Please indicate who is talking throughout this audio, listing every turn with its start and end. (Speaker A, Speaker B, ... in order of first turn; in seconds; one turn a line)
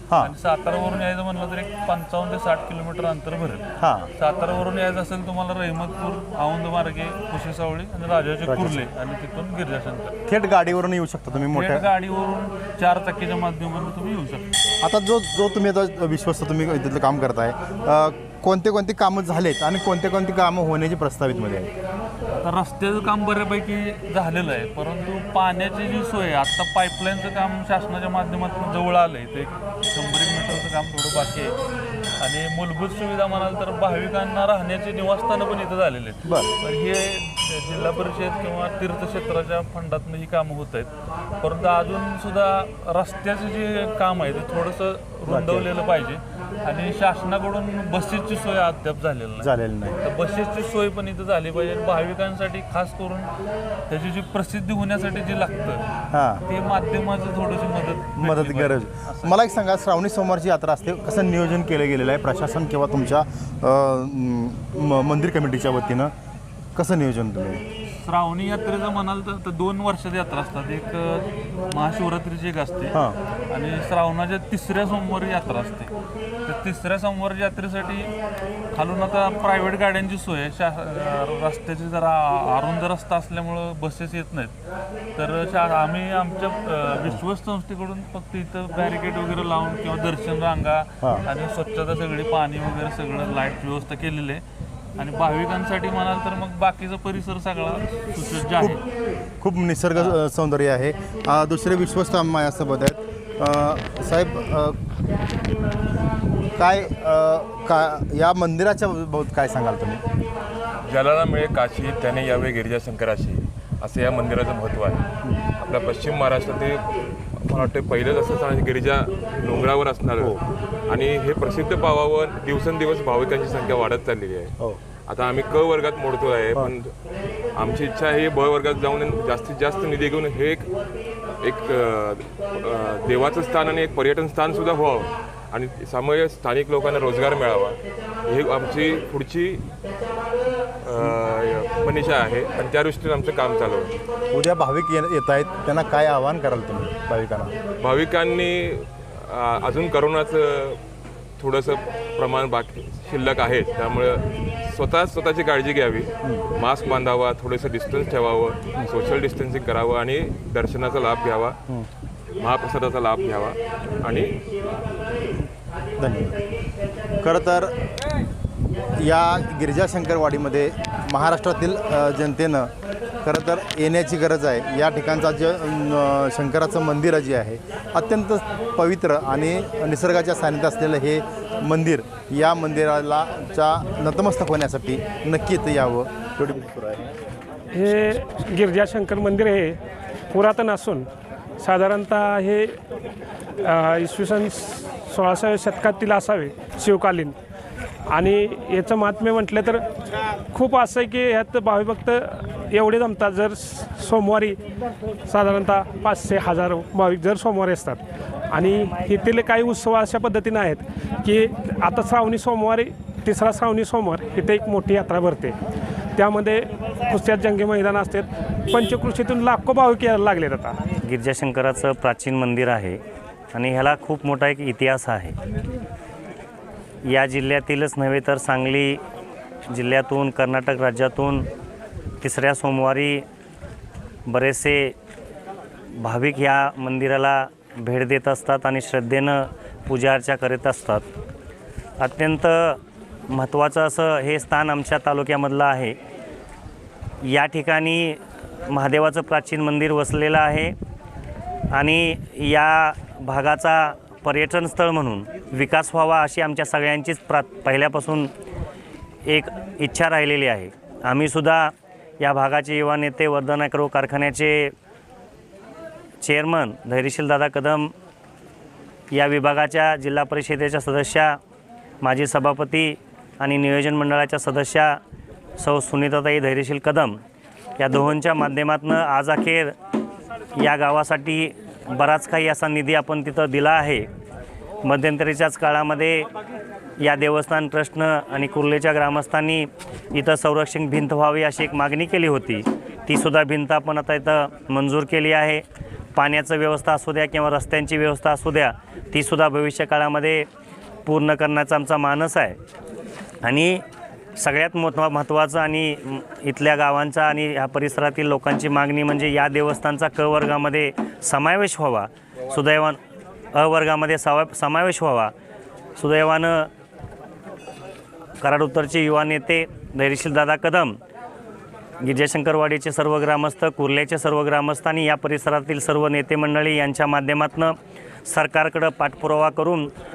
Speaker A: 0.2-10.2
Speaker B: 3.8-4.1
Speaker B: 8.4-8.8
Speaker B: 10.3-11.9
Speaker A: 11.3-14.5
Speaker B: 14.8-21.7
Speaker A: 22.4-31.6
Speaker A: 32.2-53.3
Speaker B: 36.2-36.5
Speaker B: 45.3-45.7
Speaker B: 49.4-50.0
Speaker A: 53.9-55.8
Speaker B: 56.1-56.4
Speaker A: 56.5-59.4
Speaker B: 58.2-66.1
Speaker B: 66.7-67.6
Speaker A: 67.9-73.0
Speaker A: 73.5-75.9
Speaker A: 76.4-78.1
Speaker A: 78.7-84.5
Speaker A: 85.1-94.4
Speaker A: 95.0-98.8
Speaker B: 98.5-98.8
Speaker B: 99.4-104.8
Speaker B: 106.6-110.0
Speaker C: 110.9-115.0
Speaker C: 115.6-120.3
Speaker B: 120.2-120.4
Speaker C: 120.9-124.5
Speaker C: 125.1-126.9
Speaker C: 127.5-130.7
Speaker C: 131.4-139.6
Speaker C: 140.8-144.0
Speaker B: 144.3-147.5
Speaker C: 147.8-150.8
Speaker C: 151.4-161.6
Speaker C: 162.4-164.3
Speaker B: 166.0-166.4
Speaker B: 167.2-167.7
Speaker B: 169.0-172.7
Speaker B: 173.2-187.1
Speaker D: 187.7-189.8
Speaker D: 190.3-191.1
Speaker D: 191.6-192.8
Speaker D: 193.6-197.3
Speaker D: 198.1-199.8
Speaker D: 200.5-204.6
Speaker D: 205.3-215.5
Speaker D: 216.2-220.8
Speaker E: 221.0-223.0
Speaker E: 223.5-225.4
Speaker E: 227.1-229.0
Speaker E: 229.7-231.5
Speaker E: 232.2-233.2
Speaker E: 234.3-234.9
Speaker E: 235.9-241.0
Speaker E: 242.0-245.9
Speaker E: 247.2-250.7
Speaker E: 251.7-258.3
Speaker E: 259.2-264.7
Speaker E: 266.2-267.9
Speaker E: 269.1-271.4
Speaker E: 272.0-275.0
Speaker E: 275.6-277.2
Speaker E: 277.8-279.7
Speaker E: 280.6-284.1
Speaker E: 284.8-286.3
Speaker E: 287.0-295.6
Speaker E: 296.1-300.5
Speaker E: 301.1-302.6
Speaker E: 303.4-303.8
Speaker E: 304.4-313.0
Speaker E: 313.5-315.3
Speaker E: 316.0-316.7
Speaker E: 318.4-321.0
Speaker E: 322.0-329.9